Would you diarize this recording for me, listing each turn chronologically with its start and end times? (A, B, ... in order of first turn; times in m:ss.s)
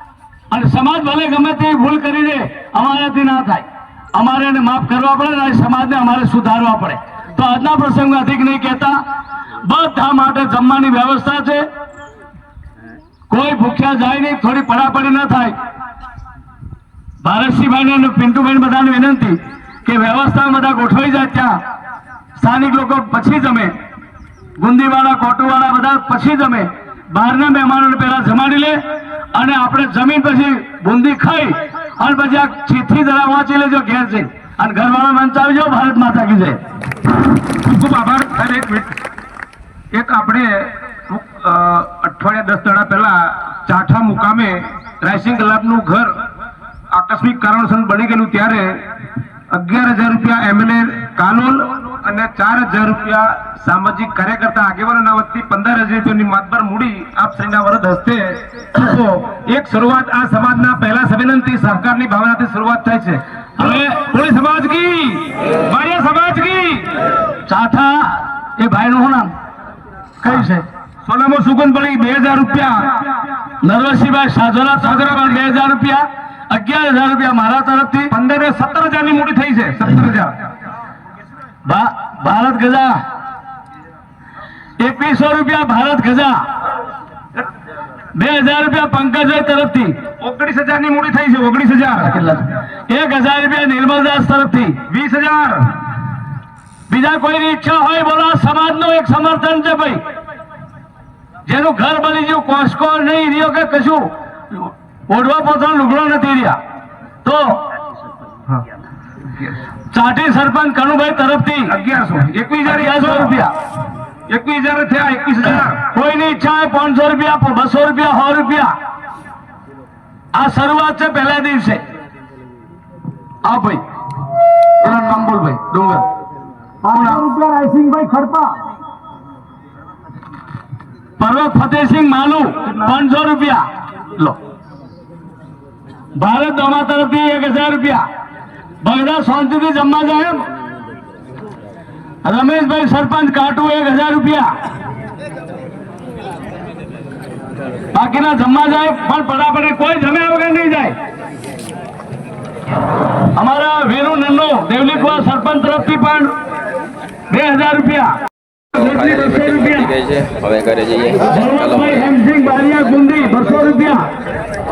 0:00.5-0:09.0 A
0:09.6-0:11.7 A
0:13.3-0:15.6 A
0:17.2-0:21.6 A
0:22.4-0:23.7 A
0:24.6-0:28.8 A
0:29.3-0:36.6 A
0:37.6-0:38.9 B
0:39.9-0:46.1 B
0:46.9-0:48.8 B
0:49.5-1:07.0 B
1:03.6-1:04.0 A
1:07.5-1:09.3 A
1:10.2-1:10.6 A
1:11.0-1:12.8 B
1:13.6-1:18.1 A
1:14.8-1:15.4 B
1:18.1-1:20.3 B
1:21.6-1:23.0 A
1:24.8-1:26.4 A
1:28.1-1:30.0 A
1:30.2-1:32.3 B
1:32.0-1:34.8 A
1:34.9-1:35.7 B
1:36.9-1:40.0 A
1:41.5-1:46.6 A
1:47.2-1:47.7 A
1:49.9-1:51.7 A
1:51.7-1:53.4 B
1:52.6-1:53.5 A
1:54.3-1:55.8 B
1:55.8-1:58.7 A
2:00.3-2:01.8 A
2:03.4-2:03.8 A
2:04.8-2:06.1 A
2:06.8-2:08.6 B
2:06.9-2:07.2 A
2:11.2-2:13.6 A
2:12.6-2:13.0 B
2:16.2-2:18.0 A
2:18.8-2:20.5 A
2:22.2-2:24.5 A
2:27.9-2:30.9 A
2:33.3-2:36.3 A
2:37.3-2:38.2 A
2:38.7-2:39.9 A
2:38.7-2:42.1 C
2:41.2-2:44.0 A